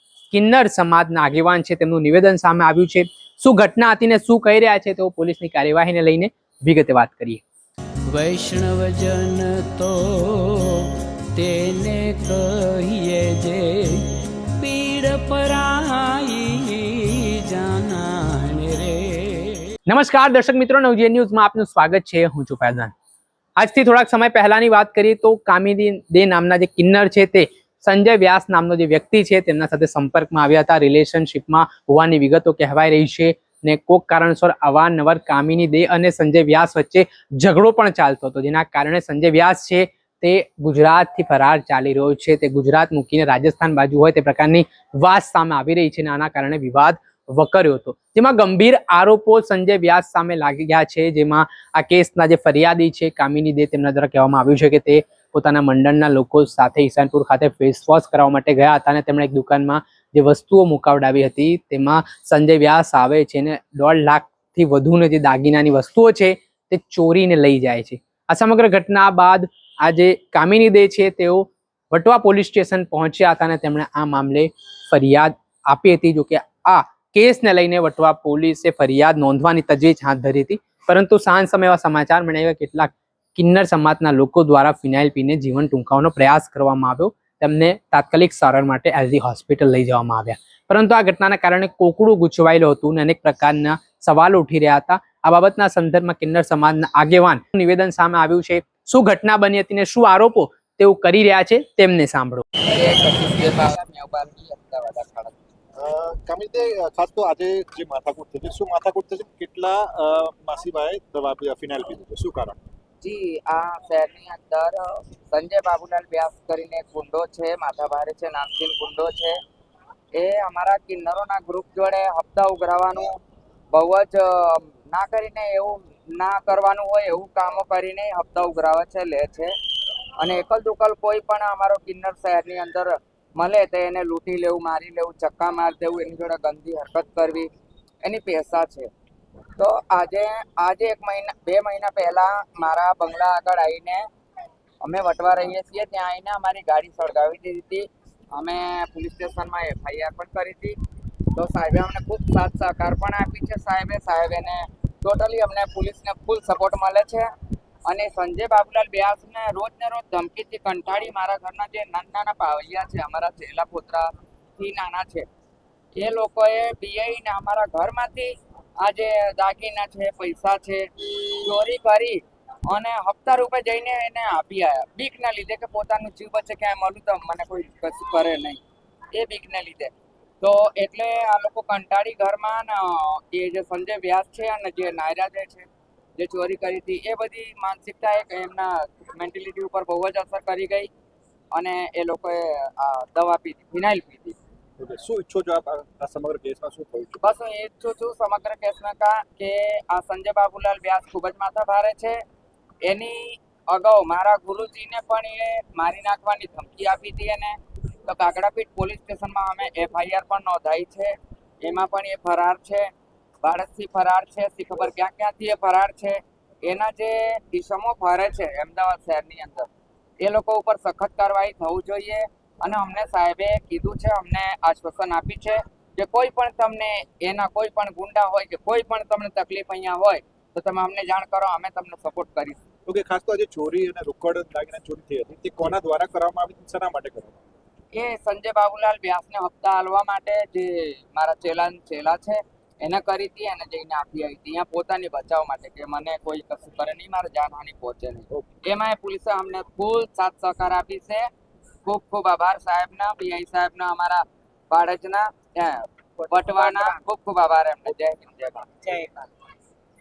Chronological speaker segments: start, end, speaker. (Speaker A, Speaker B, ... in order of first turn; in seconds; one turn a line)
Speaker A: 0.3-7.4
Speaker B: 8.1-10.6
Speaker B: 11.3-13.8
Speaker B: 14.6-19.5
Speaker A: 19.9-22.9
Speaker A: 23.6-102.5
Speaker C: 102.6-105.3
Speaker D: 105.8-112.6
Speaker C: 113.0-119.4
Speaker C: 120.1-123.2
Speaker C: 123.7-129.5
Speaker C: 130.2-137.5
Speaker C: 138.0-138.9
Speaker C: 139.6-144.1
Speaker C: 144.8-150.8
Speaker C: 151.3-157.3
Speaker C: 157.9-165.3
Speaker C: 166.0-178.6
Speaker C: 179.1-190.9
Speaker C: 191.5-194.4
Speaker D: 194.8-197.3
Speaker C: 197.2-202.2
Speaker C: 202.8-212.9
Speaker C: 213.4-219.7
Speaker C: 220.2-232.6
Speaker D: 232.9-237.4
Speaker C: 237.9-251.3
Speaker C: 251.8-259.2